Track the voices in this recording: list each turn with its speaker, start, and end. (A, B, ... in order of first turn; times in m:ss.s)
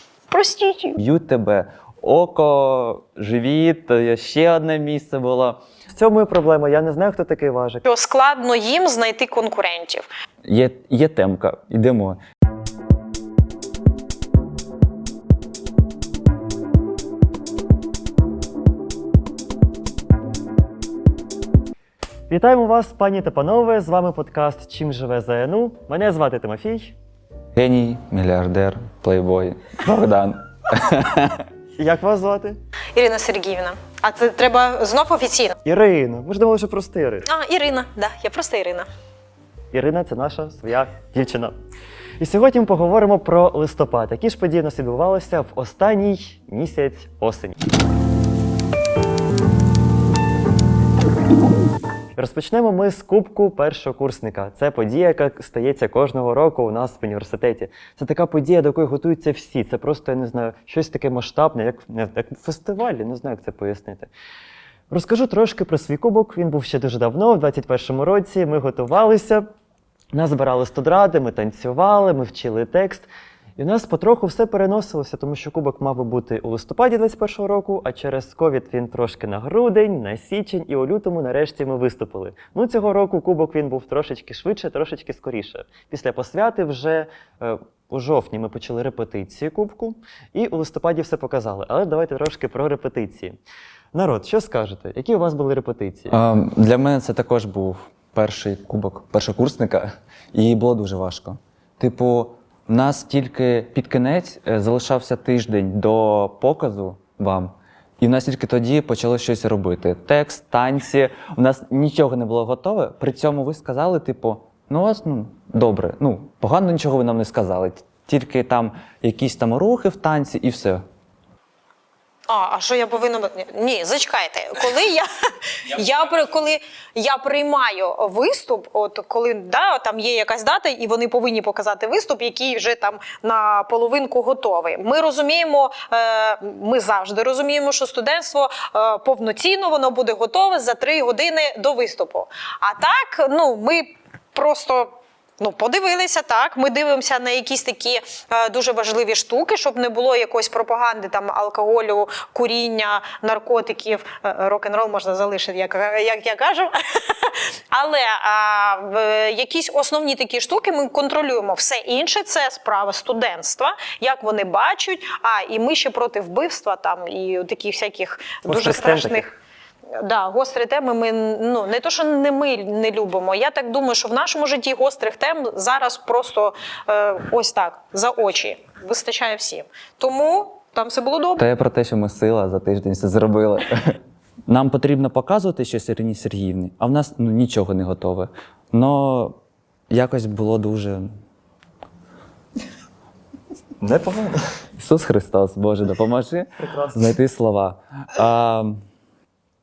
0:00.3-0:01.0 A
0:01.0-0:05.6 B
0:05.9-0:07.8 C
0:07.8-0:10.1 A
0:10.4-0:12.2 B
0:22.3-0:26.9 C
0:27.5-0:31.4 B
0:31.8-0:32.6 C
0:32.9-0:35.6 A
0:35.6-0:37.3 C
0:37.2-0:38.9 A
0:39.7-0:41.5 C
0:42.2-0:47.6 C
0:52.2-1:04.1 C
1:04.9-1:09.5 C
1:10.1-1:33.4 C
1:33.9-1:36.2 C
1:36.1-2:00.8 B
2:02.3-2:49.3 A
2:48.4-2:49.3 C
2:49.9-3:01.4 A
3:01.4-3:04.0 B
3:04.5-3:09.4 B
3:09.9-3:11.1 B
3:13.8-3:14.5 C
3:14.8-3:18.8 B
3:16.6-3:17.1 C